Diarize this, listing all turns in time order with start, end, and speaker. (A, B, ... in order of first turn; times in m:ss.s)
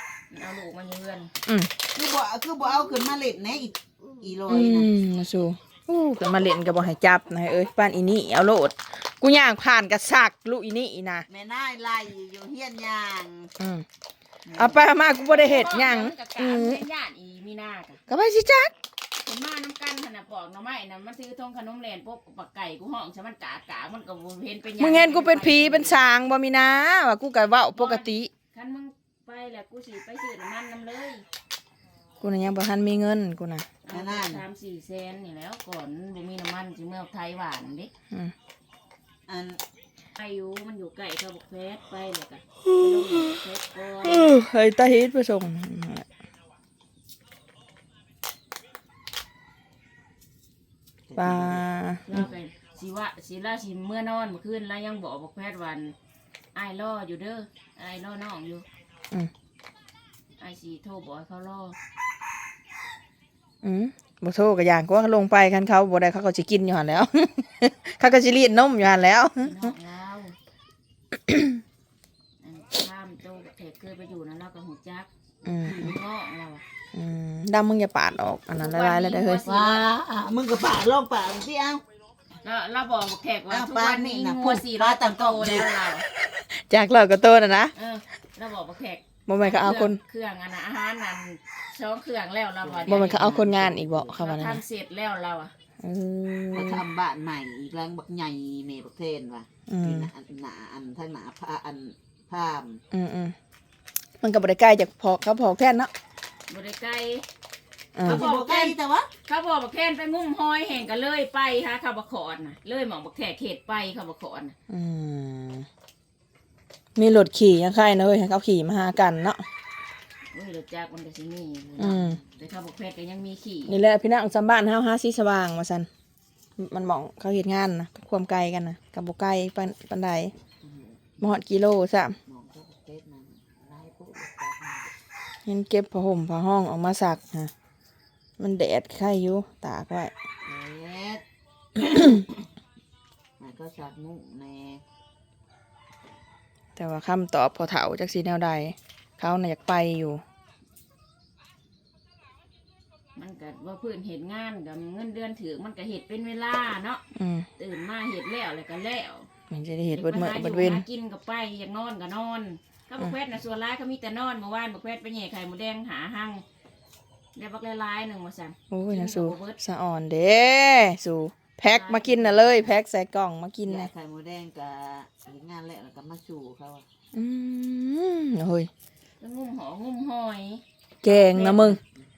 0:00.3-0:01.3 A
0:01.4-0:01.7 B
0:01.9-0:04.9 C
0:04.5-0:11.2 B
0:11.3-0:13.5 C
0:13.6-0:13.8 B
0:14.4-0:14.8 C
0:14.6-0:16.8 B
0:15.0-0:18.0 A
0:18.1-0:18.7 B
0:19.2-0:26.0 A
0:24.8-0:28.3 B
0:27.7-0:31.2 A
0:32.2-0:33.7 B
0:33.8-0:37.9 A
0:33.9-0:34.4 C
0:39.3-0:39.6 C
0:40.2-0:44.3 A
0:42.6-0:43.4 B
0:44.0-0:46.0 B
0:51.1-0:51.6 C
0:51.2-0:52.2 B
0:52.0-0:55.9 A
0:56.5-0:58.6 A
1:00.4-1:01.8 A
1:03.6-1:09.7 B
1:09.4-1:10.4 A
1:11.3-1:11.6 B
1:12.4-1:16.6 A
1:15.4-1:15.9 B
1:16.9-1:19.4 B
1:18.6-1:19.8 A
1:19.4-1:21.8 C
1:22.4-1:26.0 A
1:23.5-1:25.9 C
1:26.2-1:27.7 B
1:27.8-1:33.3 A
1:29.3-1:30.0 B
1:32.6-1:34.2 C
1:32.9-1:34.6 B
1:34.1-1:35.5 A
1:35.8-1:36.8 B
1:36.5-1:42.8 C
1:39.7-1:40.1 B
1:42.9-1:43.3 B
1:44.2-1:45.9 B
1:46.5-1:47.2 A
1:48.0-1:48.3 B
1:48.0-1:49.1 C
1:48.1-1:54.5 A
1:54.7-1:55.7 B
1:57.0-1:59.4 B
2:00.3-2:03.8 A
2:01.8-2:02.2 B
2:03.7-2:05.9 B
2:06.6-2:10.3 B
2:10.6-2:11.0 C
2:11.2-2:12.2 B
2:12.3-2:14.9 C
2:15.4-2:17.5 B
2:18.4-2:20.1 B
2:20.4-2:21.2 C
2:22.0-2:22.2 C
2:23.4-2:24.8 C
2:26.8-2:30.2 B
2:33.2-2:37.0 A
2:37.1-2:37.5 B
2:37.6-2:39.3 A
2:39.5-2:40.8 B
2:39.9-2:46.4 A
2:47.3-2:49.6 A
2:48.7-2:53.9 B
2:51.6-2:52.8 A
2:53.6-2:56.8 C
2:57.1-2:58.7 B
2:59.2-3:01.8 A
3:01.0-3:01.8 B